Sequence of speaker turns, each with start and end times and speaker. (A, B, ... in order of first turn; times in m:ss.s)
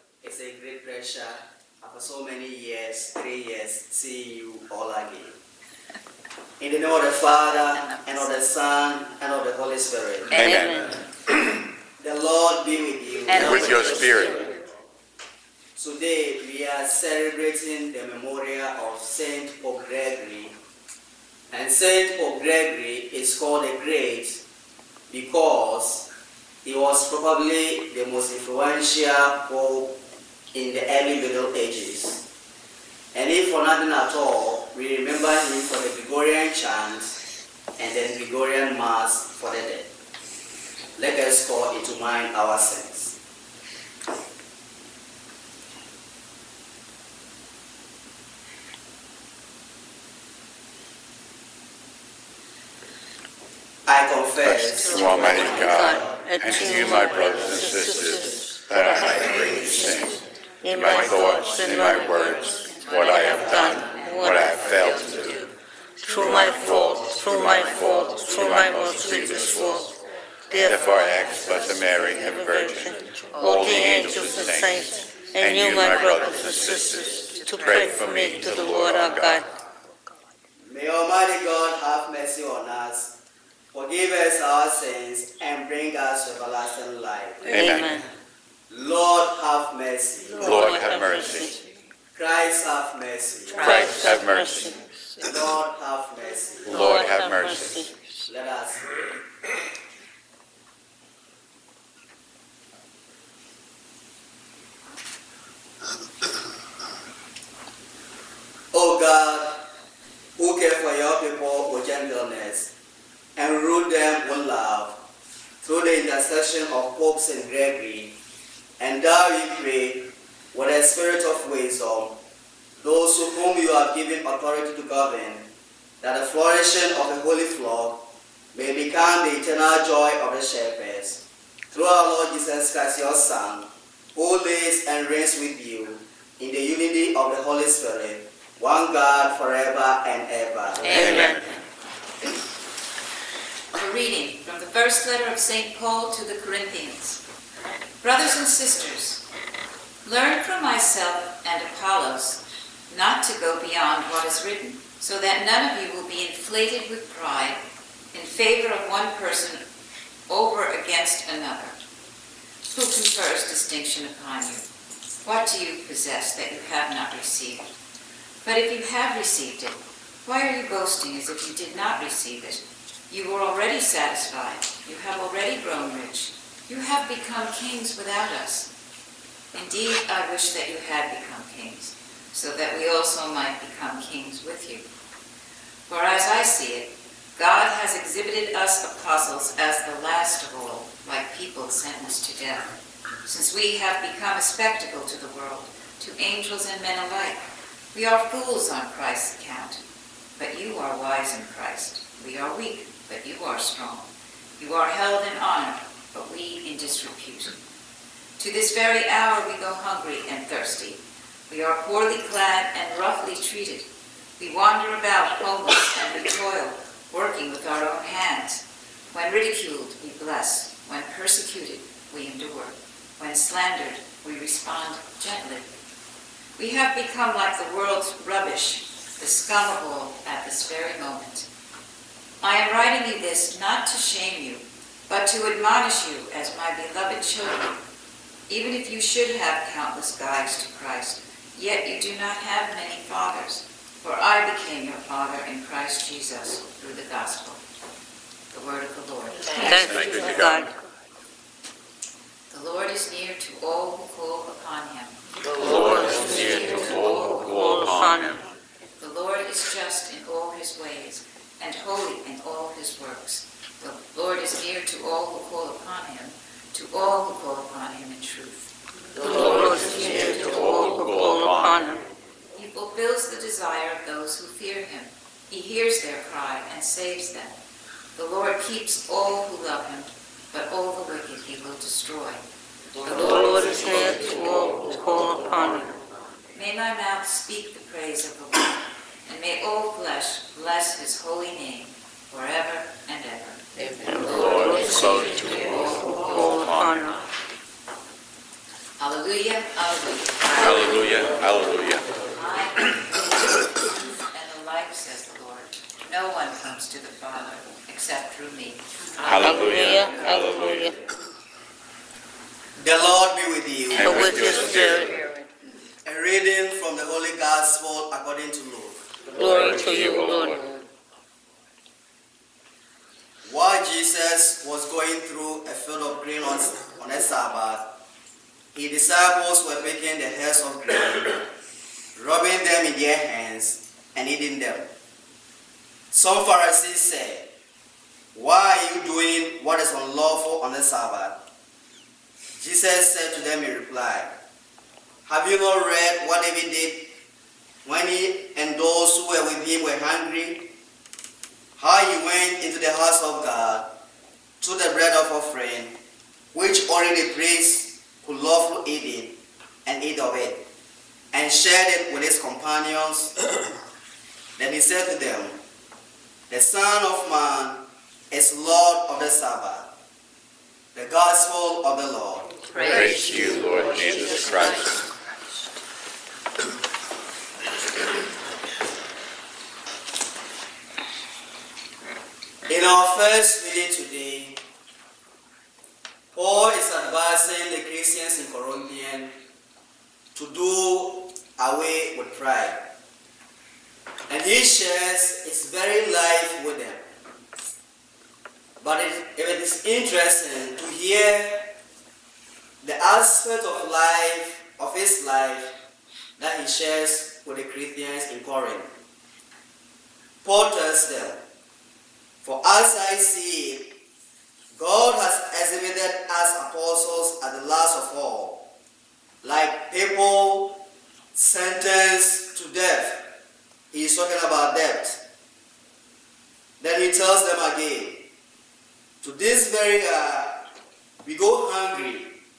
0:00.2-0:05.4 A
0:06.6-0:10.4 A
0:10.3-0:10.8 B
0:10.3-0:10.9 C
0:12.0-0:14.4 A
0:13.4-0:14.5 B
0:15.8-0:20.6 A
0:21.5-0:24.4 A
0:25.1-0:26.1 A
0:26.6-0:30.0 A
0:30.5-0:32.2 A
0:33.1-0:37.2 A
0:37.8-0:39.9 A
0:41.0-0:43.2 A
0:53.8-0:56.2 A
0:54.4-1:05.4 B
0:55.0-0:55.3 D
0:55.0-0:59.3 C
1:00.6-1:04.5 C
1:06.0-1:09.9 C
1:06.1-1:09.8 B
1:10.5-1:11.2 C
1:10.6-1:19.4 B
1:12.3-1:19.5 C
1:20.6-1:23.2 A
1:23.7-1:27.8 A
1:27.4-1:28.0 C
1:27.5-1:28.0 B
1:28.7-1:30.6 A
1:30.4-1:31.6 C
1:30.4-1:31.5 B
1:32.1-1:33.9 A
1:33.6-1:34.0 D
1:33.6-1:34.8 C
1:33.6-1:34.7 B
1:35.2-1:36.9 A
1:36.6-1:37.9 B
1:36.7-1:37.9 C
1:38.3-1:39.0 A
1:48.7-1:49.7 A
1:50.4-1:52.7 A
1:53.4-1:55.0 A
1:55.6-1:58.2 A
1:58.8-2:02.2 A
2:02.8-2:05.5 A
2:06.0-2:21.2 A
2:20.9-2:21.3 D
2:20.9-2:21.4 C
2:20.9-2:21.4 B
2:23.7-2:27.2 D
2:28.0-2:29.2 D
2:30.0-2:39.6 D
2:40.3-2:41.8 D
2:42.7-2:44.7 D
2:45.2-2:47.7 D
2:48.4-2:58.7 D
2:59.5-3:04.9 D
3:05.9-3:12.7 D
3:13.2-3:19.8 D
3:20.4-3:27.6 D
3:28.4-3:45.7 D
3:46.6-3:51.5 D
3:52.4-3:57.8 D
3:58.5-4:07.6 D
4:08.5-4:10.0 D
4:09.6-4:10.7 C
4:09.6-4:10.6 B
4:12.5-4:17.8 D
4:15.5-4:18.4 B
4:15.7-4:16.3 C
4:17.5-4:18.4 C
4:19.0-4:30.7 D
4:29.2-4:31.9 B
4:29.2-4:32.0 C
4:32.5-4:37.6 D
4:38.1-4:42.4 D
4:43.0-4:44.2 D
4:43.2-4:45.9 C
4:46.5-4:56.7 D
4:54.1-4:55.3 C
4:54.1-4:55.6 B
4:56.2-4:57.3 C
4:56.3-4:57.0 B
4:59.0-5:01.0 D
5:00.6-5:02.1 B
5:02.3-5:10.9 D
5:09.2-5:10.9 B
5:09.3-5:10.9 C
5:12.8-5:14.9 A
5:13.9-5:15.1 B
5:14.0-5:15.2 C
5:16.0-5:19.1 A
5:19.3-5:20.6 B
5:19.3-5:20.6 C
5:23.4-5:27.9 A
5:28.7-5:31.5 A
5:32.2-5:34.9 A
5:36.1-5:37.5 A
5:38.3-5:41.4 A
5:42.6-5:44.3 A
5:45.2-5:47.1 A
5:47.8-5:50.7 A
5:51.8-5:53.9 A
5:54.6-5:56.0 A
5:56.5-6:00.6 A
6:01.3-6:03.3 A
6:04.6-6:05.6 A
6:06.5-6:09.9 A
6:10.9-6:14.8 A
6:12.7-6:14.9 D
6:12.8-6:14.9 B
6:22.7-6:24.6 A
6:26.3-6:29.4 A
6:30.3-6:32.8 A
6:34.3-6:37.1 A
6:38.8-6:41.7 A
6:42.8-6:45.7 A
6:46.4-6:48.9 A
6:50.4-6:51.4 A
6:52.4-6:54.0 A
6:54.7-6:58.7 A
6:59.4-7:03.3 A
7:03.9-7:05.2 A
7:06.8-7:08.3 A
7:09.2-7:10.7 A
7:11.2-7:12.4 A